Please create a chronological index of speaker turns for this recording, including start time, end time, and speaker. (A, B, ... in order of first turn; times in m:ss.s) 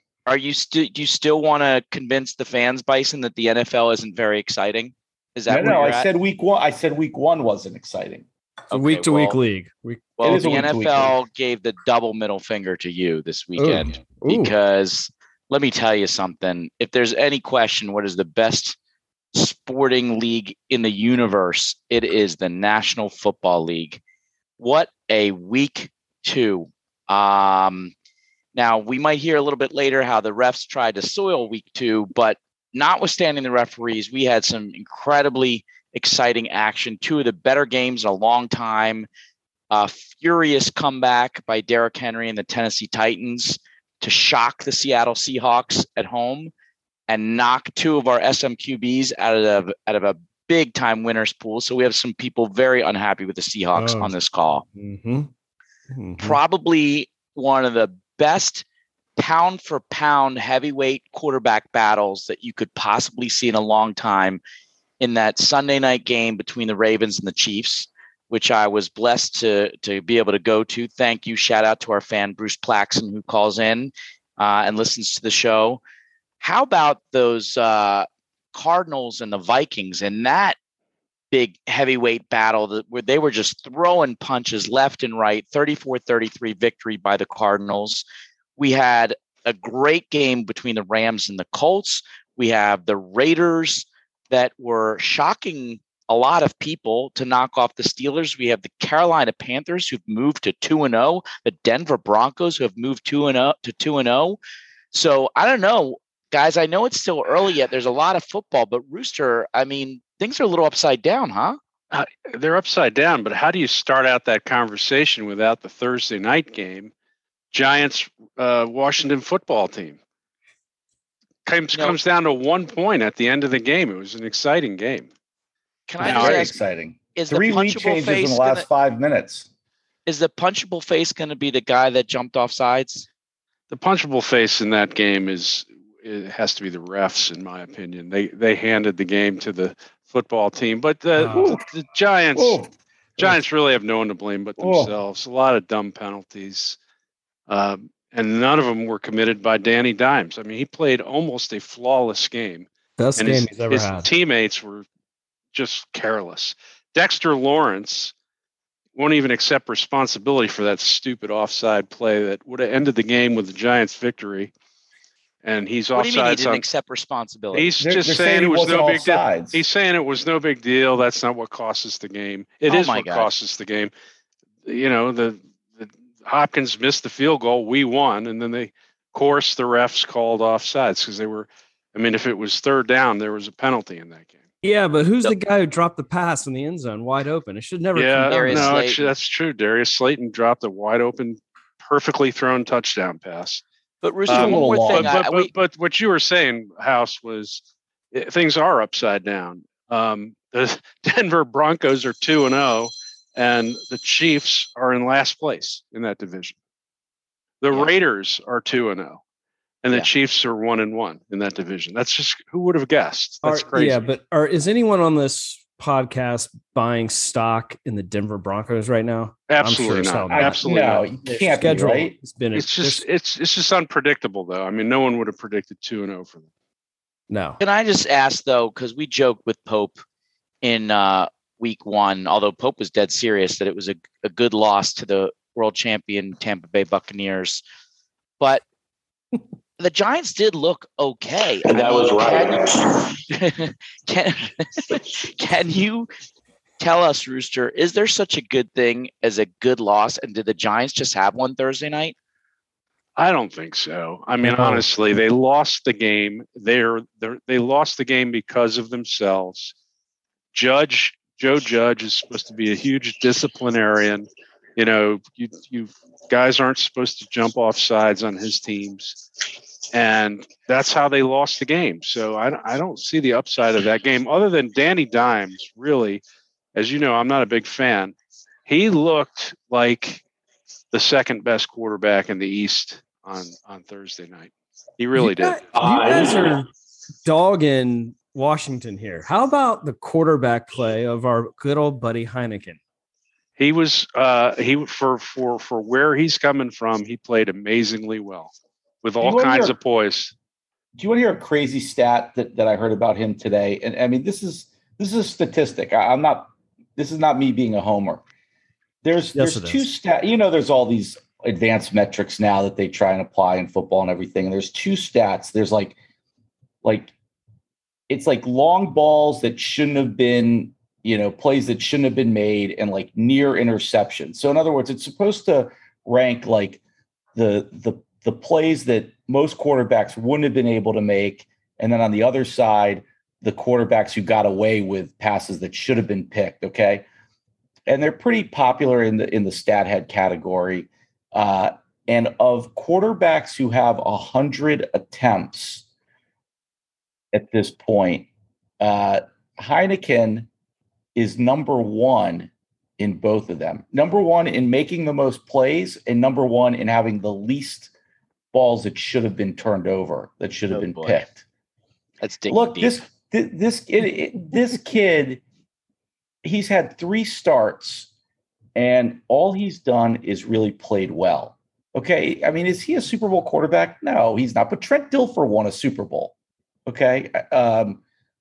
0:00.3-0:06.1 A
0:05.5-0:08.3 B
0:08.7-0:09.4 A
0:08.7-0:10.5 C
0:10.2-0:18.8 A
0:10.2-0:11.2 B
0:13.6-0:14.5 C
0:19.3-0:24.0 A
0:24.6-0:27.9 A
0:28.6-0:39.1 A
0:39.7-0:46.5 A
0:47.1-0:54.6 A
0:53.8-0:54.2 C
0:54.8-0:55.3 C
0:55.9-0:56.4 C
0:56.2-0:58.6 A
0:59.2-1:04.4 A
1:05.0-1:15.8 A
1:16.4-1:20.6 A
1:21.3-1:28.0 A
1:28.6-1:44.4 A
1:44.9-1:51.6 A
1:51.9-1:56.9 D
1:57.5-2:00.0 D
2:01.5-2:05.1 D
2:05.9-2:06.6 A
2:06.0-2:09.5 B
2:06.0-2:06.5 D
2:07.2-2:08.7 A
2:10.1-2:13.1 A
2:13.7-2:22.6 D
2:21.2-2:21.5 C
2:21.3-2:21.6 B
2:22.4-2:22.7 B
2:23.2-2:26.8 D
2:24.6-2:24.9 B
2:27.5-2:34.9 D
2:33.0-2:34.1 C
2:35.5-2:38.1 D
2:39.0-2:44.5 D
2:45.4-2:46.7 D
2:45.9-2:47.7 A
2:47.5-2:53.9 D
2:47.8-2:49.6 B
2:52.7-2:53.3 A
2:54.6-3:04.4 D
3:04.6-3:08.9 C
3:08.0-3:13.6 D
3:08.3-3:09.0 A
3:14.0-3:15.5 A
3:14.3-3:15.2 B
3:14.3-3:17.6 D
3:18.1-3:26.6 D
3:27.6-3:29.2 D
3:29.8-3:34.1 D
3:33.4-3:43.0 C
3:39.5-3:41.1 D
3:40.3-3:42.2 B
3:42.6-3:46.5 D
3:47.3-3:47.6 C
3:47.6-3:50.0 A
3:50.6-3:57.6 A
3:59.8-4:02.7 A
4:01.7-4:03.2 E
4:03.3-4:06.1 A
4:06.8-4:12.2 A
4:13.2-4:19.7 D
4:14.4-4:14.8 C
4:20.5-4:29.2 D
4:29.9-4:36.2 D
4:36.8-4:38.2 D
4:38.7-4:40.2 D
4:40.9-4:45.6 D
4:45.2-4:46.7 C
4:45.7-4:46.6 E
4:47.2-4:52.8 C
4:53.6-5:00.3 D
4:59.2-4:59.8 B
5:01.0-5:08.2 B
5:09.0-5:16.0 B
5:09.4-5:09.8 C
5:16.8-5:17.1 B
5:18.1-5:26.8 B
5:27.4-5:37.1 B
5:37.9-5:45.8 B
5:47.3-5:48.3 B
5:48.8-5:50.5 B
5:51.2-5:57.9 B
5:58.5-6:01.5 B
6:00.7-6:01.2 A
6:02.2-6:03.0 A
6:02.5-6:05.4 B
6:06.4-6:08.1 B
6:08.8-6:16.3 B
6:16.9-6:18.0 B